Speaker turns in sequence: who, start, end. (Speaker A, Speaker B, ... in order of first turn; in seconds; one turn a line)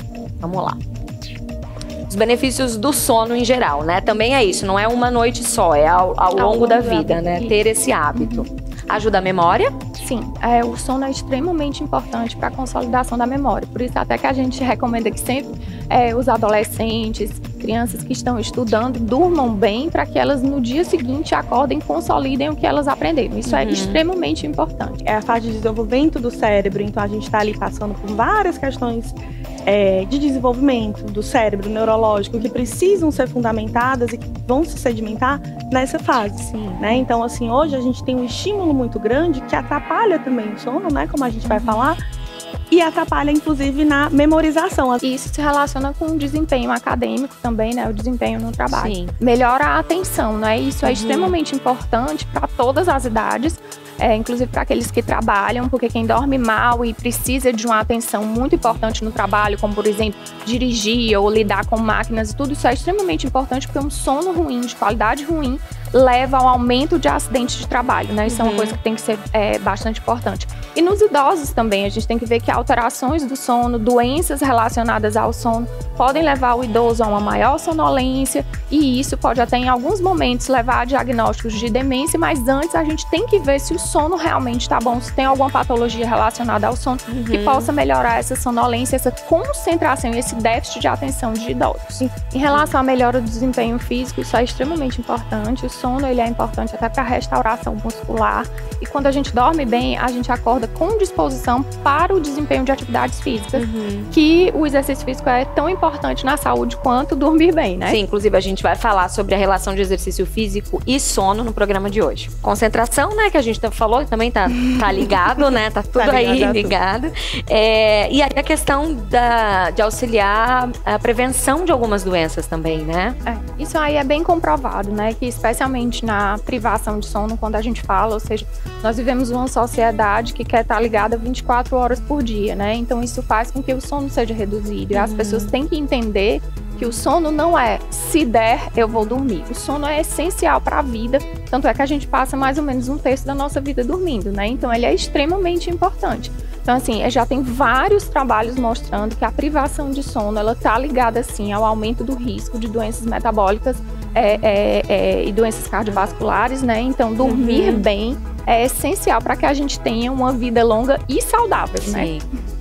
Speaker A: 0.4-0.8
Speaker A: 2.1-9.7
Speaker B: 6.3-7.6
Speaker B: 8.1-8.5
Speaker B: 10.0-25.0
Speaker A: 23.4-24.0
Speaker C: 25.0-42.0
Speaker A: 36.4-37.0
Speaker B: 41.5-41.8
Speaker C: 42.7-45.0
Speaker B: 45.0-108.0
Speaker A: 48.7-49.1
Speaker A: 50.8-51.4
Speaker A: 68.2-68.8
Speaker A: 87.1-87.7
Speaker A: 103.5-104.1
Speaker A: 107.8-123.2
Speaker C: 115.9-116.8
Speaker B: 123.2-162.2
Speaker A: 134.9-135.5
Speaker A: 157.2-157.9
Speaker A: 161.8-162.2